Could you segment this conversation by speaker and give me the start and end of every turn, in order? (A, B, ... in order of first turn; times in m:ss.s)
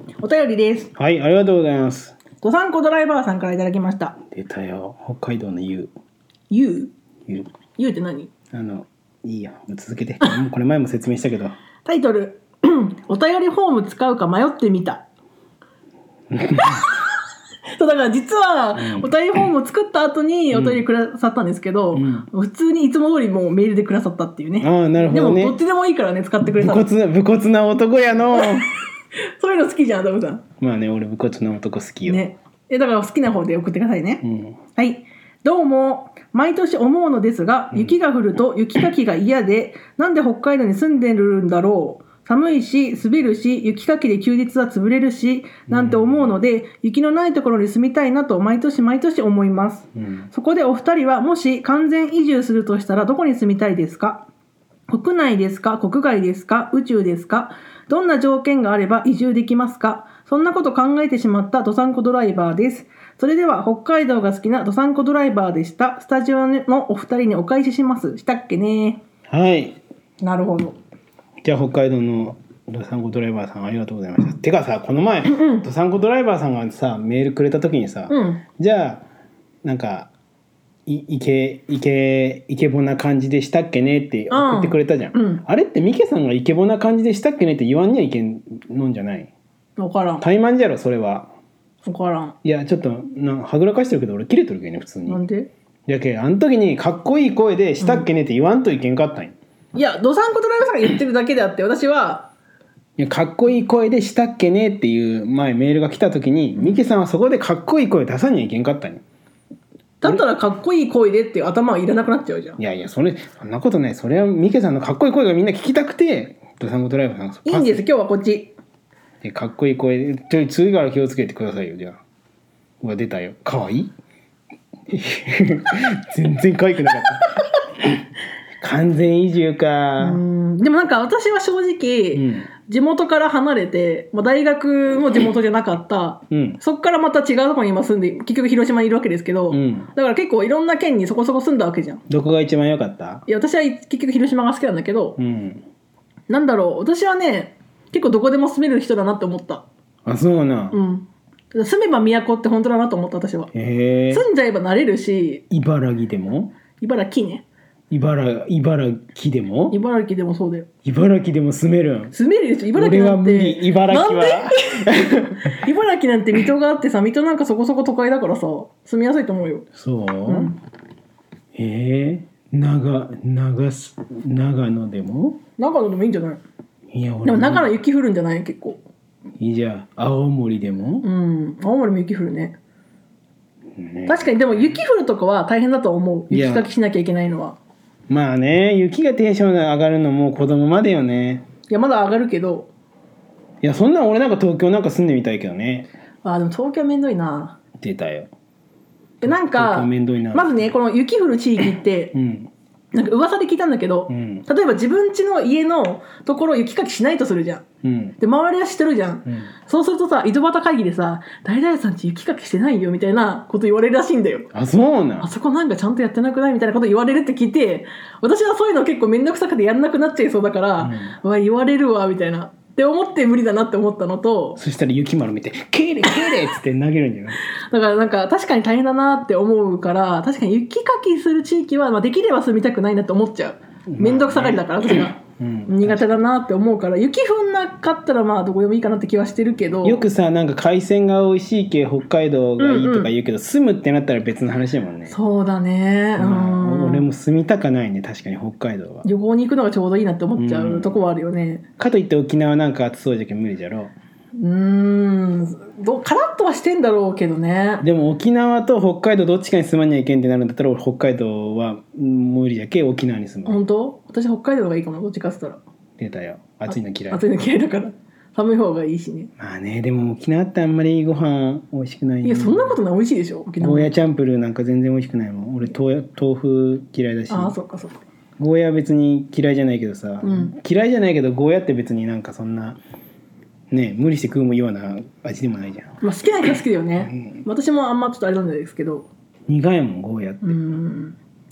0:00.2-0:00.9 A
0:01.0-0:02.2 B
0:02.4-0:04.2 A
0:04.3-0:05.9 B
0:06.5-0:06.9 A
0:07.7-0:08.3 A
0:08.5-0:11.5 B
0:11.8-0:15.0 A
0:16.3-0:16.8 B
0:16.6-0:16.9 A
0:17.8-0:26.9 A
0:18.8-0:19.1 B
0:20.5-0:20.8 B
0:21.9-0:22.3 B
0:24.6-0:25.6 B
0:26.6-0:28.7 B
0:28.3-0:28.7 A
0:29.2-0:30.4 A
0:30.6-0:32.2 B
0:32.1-0:34.2 A
0:34.2-0:34.6 B
0:34.8-0:54.3 A
0:45.7-0:46.4 B
0:50.0-0:50.3 B
0:54.9-1:09.0 A
1:09.3-1:09.8 B
1:10.2-1:10.8 A
1:11.4-1:19.0 B
1:15.2-1:15.6 A
1:18.1-1:18.4 A
1:19.6-1:20.1 B
1:20.8-1:29.3 B
1:24.3-1:25.4 A
1:29.8-1:30.2 A
1:30.2-1:31.3 B
1:31.8-1:32.3 A
1:32.4-1:35.2 B
1:35.1-1:35.5 A
1:35.9-1:39.3 B
1:37.8-1:38.0 A
1:39.7-1:42.3 A
1:43.0-1:49.0 B
1:50.0-1:52.6 A
1:52.6-1:57.8 B
1:57.4-1:58.5 A
1:59.2-2:02.0 B
2:02.8-2:03.9 B
2:04.9-2:07.9 B
2:08.6-2:10.2 B
2:10.0-2:22.0 A
2:12.1-2:12.5 B
2:16.3-2:16.6 B
2:19.5-2:19.9 B
2:22.1-2:23.2 B
2:23.3-2:25.2 A
2:25.2-2:25.6 B
2:26.3-2:29.6 A
2:30.0-2:30.8 B
2:30.7-2:33.5 A
2:33.5-2:34.2 B
2:34.1-2:35.4 A
2:35.5-2:36.5 B
2:36.8-2:37.4 A
2:37.9-2:39.8 B
2:39.7-2:40.7 A
2:40.8-2:42.1 B
2:42.1-2:44.9 A
2:42.7-2:45.5 B
2:45.4-2:49.6 A
2:49.7-2:50.6 B
2:50.3-2:50.6 A
2:51.5-2:55.4 B
2:55.6-2:56.4 A
2:56.9-2:57.7 B
2:57.2-2:58.8 A
2:59.4-3:01.0 B
3:01.0-3:02.6 A
3:03.8-3:04.8 B
3:04.1-3:07.6 A
3:06.3-3:06.7 B
3:08.1-3:11.4 B
3:11.7-3:12.7 A
3:13.6-3:15.9 B
3:16.2-3:17.6 A
3:17.8-3:18.3 B
3:19.2-3:22.1 A
3:19.2-3:20.7 B
3:22.1-3:22.5 B
3:22.9-3:27.6 A
3:24.1-3:24.5 B
3:27.8-3:28.2 B
3:28.2-3:34.5 A
3:34.5-3:35.3 B
3:35.2-3:44.6 A
3:40.8-3:41.1 B
3:44.6-3:47.4 B
3:47.5-4:00.0 A
3:53.9-3:56.1 B
3:59.8-4:05.1 B
4:02.6-4:03.1 A
4:05.1-4:07.0 A
4:06.2-4:09.0 B
4:09.0-4:11.6 A
4:10.4-4:11.0 B
4:11.8-4:13.9 B
4:14.4-4:17.8 A
4:17.8-4:23.6 B
4:23.4-4:25.6 A
4:26.0-4:27.2 B
4:26.7-4:29.3 A
4:29.4-4:32.8 B
4:32.2-4:33.9 A
4:33.6-4:37.5 B
4:37.3-4:38.0 A
4:38.4-4:42.8 B
4:40.2-4:40.5 A
4:43.7-4:46.0 B
4:46.0-4:49.1 A
4:47.0-4:47.4 B
4:49.5-4:50.6 B
4:50.4-4:51.2 A